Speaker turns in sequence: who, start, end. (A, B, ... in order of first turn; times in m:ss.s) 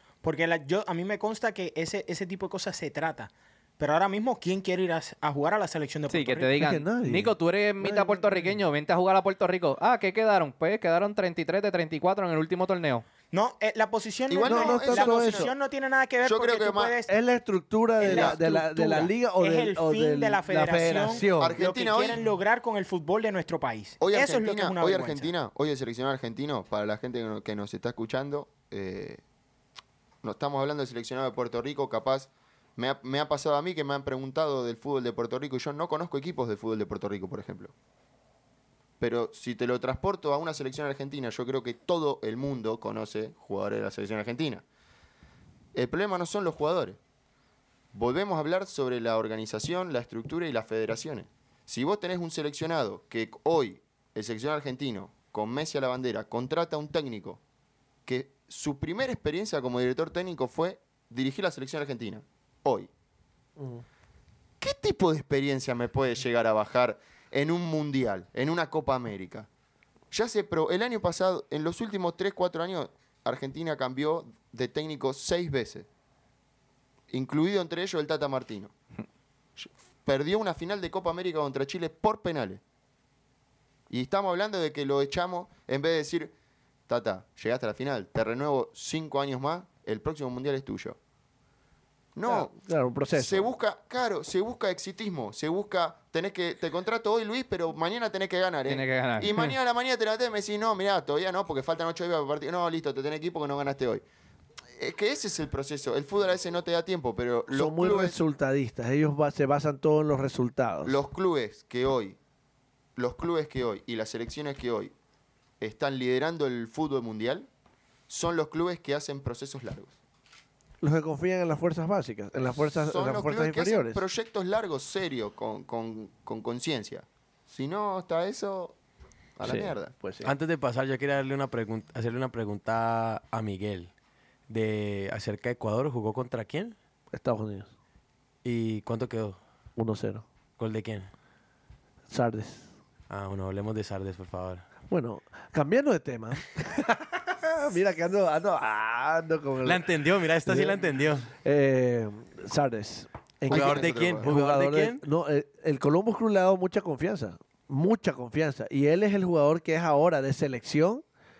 0:00.2-0:06.6 A
0:06.1-0:13.1 B
0:06.6-0:08.6 C
0:13.3-0:17.1 A
0:14.3-0:15.5 D
0:14.4-0:15.5 C
0:16.2-0:17.0 D
0:17.1-0:21.6 C
0:18.0-0:25.3 A
0:18.0-0:19.1 D
0:21.3-0:22.2 D
0:24.0-0:29.2 D
0:30.2-0:37.7 D
0:39.0-0:44.6 D
0:45.7-0:47.0 D
0:47.9-0:57.4 D
0:58.1-1:02.9 D
1:03.6-1:03.8 C
1:04.6-1:09.5 D
1:10.1-1:15.9 D
1:17.1-1:18.7 D
1:19.6-1:22.6 D
1:23.9-1:26.3 D
1:26.9-1:31.0 D
1:32.1-1:32.5 D
1:32.3-1:33.5 C
1:33.1-1:44.0 D
1:38.7-1:39.5 B
1:44.8-1:48.2 D
1:47.5-1:51.0 C
1:50.8-1:52.2 D
1:53.0-1:54.9 D
1:55.6-1:57.5 D
1:58.1-2:00.0 D
2:00.8-2:04.0 C
2:02.8-2:08.8 D
2:09.4-2:09.9 D
2:09.4-2:10.3 C
2:10.2-2:13.9 E
2:14.5-2:16.7 E
2:17.1-2:17.7 C
2:18.4-2:19.4 E
2:19.8-2:20.2 C
2:20.6-2:21.1 E
2:22.1-2:22.7 C
2:23.1-2:24.7 E
2:24.9-2:29.9 C
2:29.6-2:31.3 E
2:30.4-2:30.8 C
2:31.3-2:41.0 C
2:33.5-2:34.3 D
2:33.5-2:35.0 E